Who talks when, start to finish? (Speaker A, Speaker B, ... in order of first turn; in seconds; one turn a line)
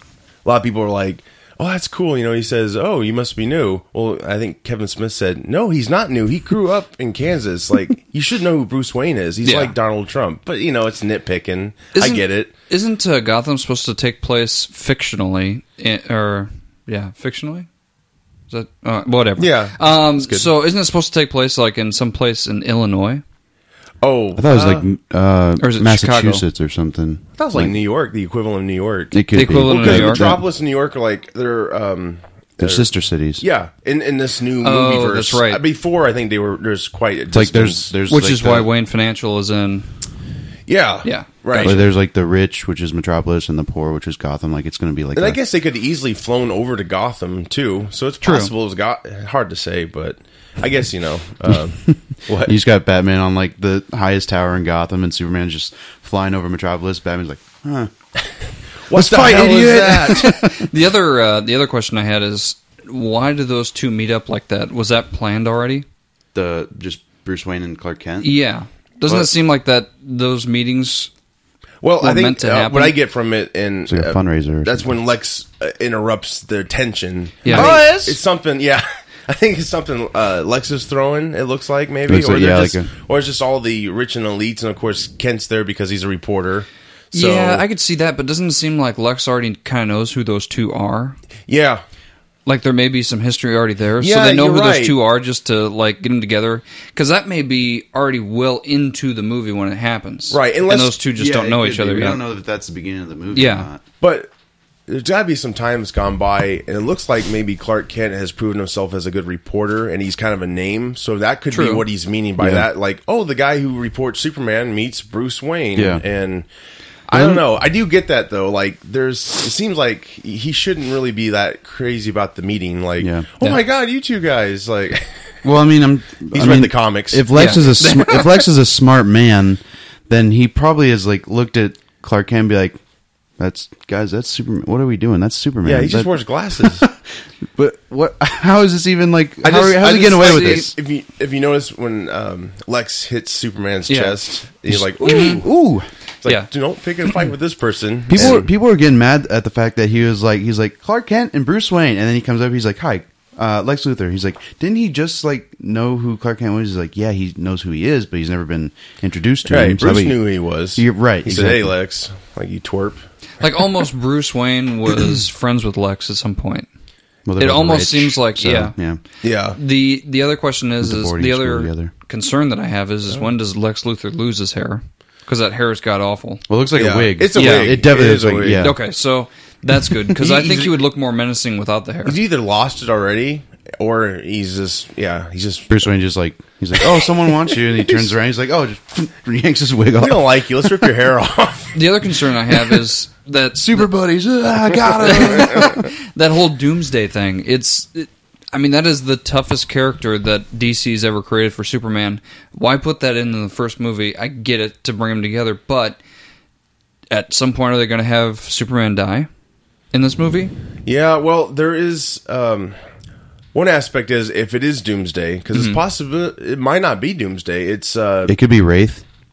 Speaker A: 0.4-12.5
Speaker B: 9.4-9.7
Speaker B: 11.9-17.7
Speaker B: 18.5-23.2
Speaker A: 19.4-20.5
Speaker A: 24.0-24.8
Speaker C: 24.4-27.7
Speaker B: 25.6-26.4
Speaker A: 27.4-32.9
Speaker C: 29.1-30.4
Speaker B: 29.3-30.2
Speaker C: 32.6-33.5
Speaker A: 33.4-37.9
Speaker B: 34.6-35.6
Speaker C: 37.3-38.7
Speaker B: 38.1-39.9
Speaker A: 40.7-41.9
Speaker B: 41.0-41.7
Speaker C: 41.5-45.4
Speaker A: 45.1-52.6
Speaker B: 48.2-48.5
Speaker C: 52.4-57.9
Speaker A: 58.9-60.2
Speaker C: 58.9-60.7
Speaker B: 60.1-65.8
Speaker C: 66.3-68.3
Speaker B: 68.2-71.1
Speaker A: 71.8-87.6
Speaker B: 72.0-73.0
Speaker C: 73.9-74.9
Speaker B: 77.4-77.8
Speaker C: 77.5-78.2
Speaker C: 82.1-82.9
Speaker B: 87.1-91.2
Speaker A: 91.5-91.8
Speaker B: 92.5-102.2
Speaker A: 94.0-95.0
Speaker A: 100.3-101.0
Speaker C: 101.2-103.8
Speaker B: 103.3-103.7
Speaker A: 104.0-104.3
Speaker A: 104.9-116.5
Speaker B: 111.5-111.8
Speaker C: 112.4-112.7
Speaker C: 115.7-116.0
Speaker A: 117.1-125.2
Speaker C: 117.1-117.4
Speaker C: 123.0-123.3
Speaker C: 125.4-132.8
Speaker A: 126.3-127.3
Speaker B: 127.3-128.4
Speaker C: 133.4-136.9
Speaker A: 135.6-136.9
Speaker C: 137.5-140.7
Speaker A: 139.4-145.4
Speaker B: 140.0-140.7
Speaker B: 143.9-144.2
Speaker C: 144.6-145.9
Speaker B: 145.0-145.4
Speaker A: 146.2-148.5
Speaker C: 148.1-160.2
Speaker A: 159.5-163.0
Speaker C: 160.7-161.7
Speaker B: 163.4-166.7
Speaker C: 167.2-169.0
Speaker B: 167.4-168.7
Speaker A: 169.2-169.6
Speaker B: 169.5-176.4
Speaker C: 170.8-171.9
Speaker C: 176.5-178.8
Speaker A: 176.8-178.7
Speaker B: 177.3-177.7
Speaker B: 178.6-182.2
Speaker A: 180.2-180.7
Speaker A: 182.0-185.8
Speaker C: 185.7-190.9
Speaker A: 186.8-187.3
Speaker A: 190.0-191.8
Speaker B: 191.7-193.9
Speaker C: 193.6-195.9
Speaker B: 195.0-206.0
Speaker B: 207.1-209.3
Speaker B: 209.9-210.5
Speaker A: 210.8-212.8
Speaker A: 213.5-218.3
Speaker B: 215.5-215.8
Speaker C: 218.3-219.0